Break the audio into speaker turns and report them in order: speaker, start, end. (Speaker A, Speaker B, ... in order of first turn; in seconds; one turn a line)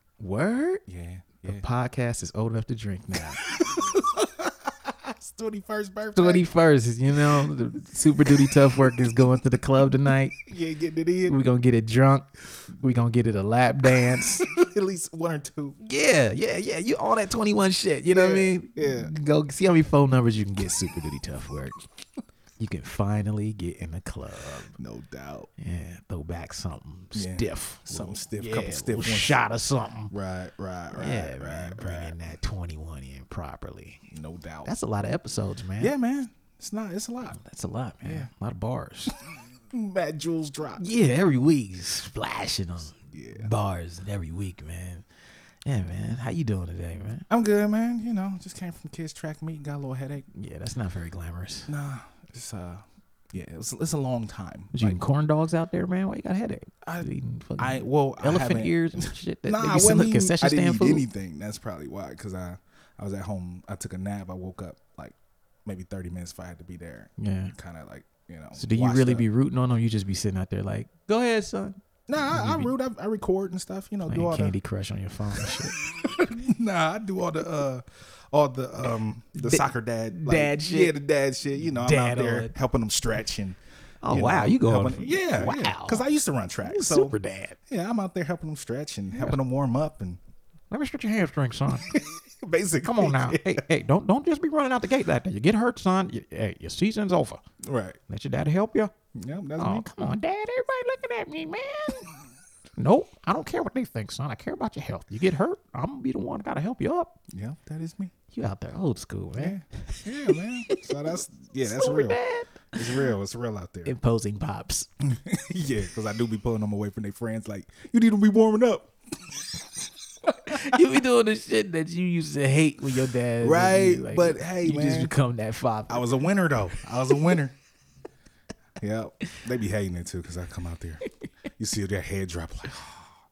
Speaker A: 0.2-0.8
Speaker B: 0.9-1.6
Speaker A: 1.4-3.4
Speaker B: 3.1-4.4
Speaker B: 5.0-6.5
Speaker A: 6.1-10.3
Speaker B: 10.3-11.4
Speaker A: 11.3-14.5
Speaker B: 13.9-15.8
Speaker A: 15.8-21.8
Speaker B: 18.1-19.1
Speaker A: 22.6-24.7
Speaker B: 24.8-25.5
Speaker A: 25.6-30.1
Speaker B: 27.1-29.4
Speaker B: 30.1-32.1
Speaker A: 30.9-34.0
Speaker B: 34.1-34.7
Speaker A: 34.6-35.9
Speaker B: 35.8-37.4
Speaker A: 37.3-39.1
Speaker B: 38.0-38.3
Speaker B: 39.7-40.8
Speaker A: 40.8-45.0
Speaker B: 43.1-43.5
Speaker A: 45.6-47.2
Speaker B: 47.3-50.2
Speaker A: 50.3-51.7
Speaker B: 51.7-55.0
Speaker A: 54.7-61.0
Speaker B: 57.6-69.3
Speaker A: 67.2-67.5
Speaker A: 68.5-71.8
Speaker B: 72.1-74.5
Speaker A: 72.3-72.7
Speaker A: 74.1-75.9
Speaker B: 75.4-83.6
Speaker A: 79.3-80.9
Speaker A: 81.7-82.5
Speaker A: 84.0-86.0
Speaker B: 84.1-87.2
Speaker A: 86.6-87.6
Speaker B: 87.7-90.2
Speaker A: 90.7-91.9
Speaker B: 91.9-93.6
Speaker A: 92.8-97.4
Speaker B: 97.6-98.0
Speaker A: 98.1-98.9
Speaker B: 99.1-99.9
Speaker A: 99.6-102.1
Speaker A: 102.8-107.2
Speaker B: 107.3-108.1
Speaker A: 108.3-113.0
Speaker B: 109.3-112.2
Speaker B: 112.7-113.9
Speaker A: 113.8-114.9
Speaker B: 115.0-118.9
Speaker B: 120.3-120.7
Speaker A: 120.5-126.0
Speaker B: 123.4-125.1
Speaker B: 125.9-127.5
Speaker B: 128.8-131.0
Speaker B: 131.6-133.1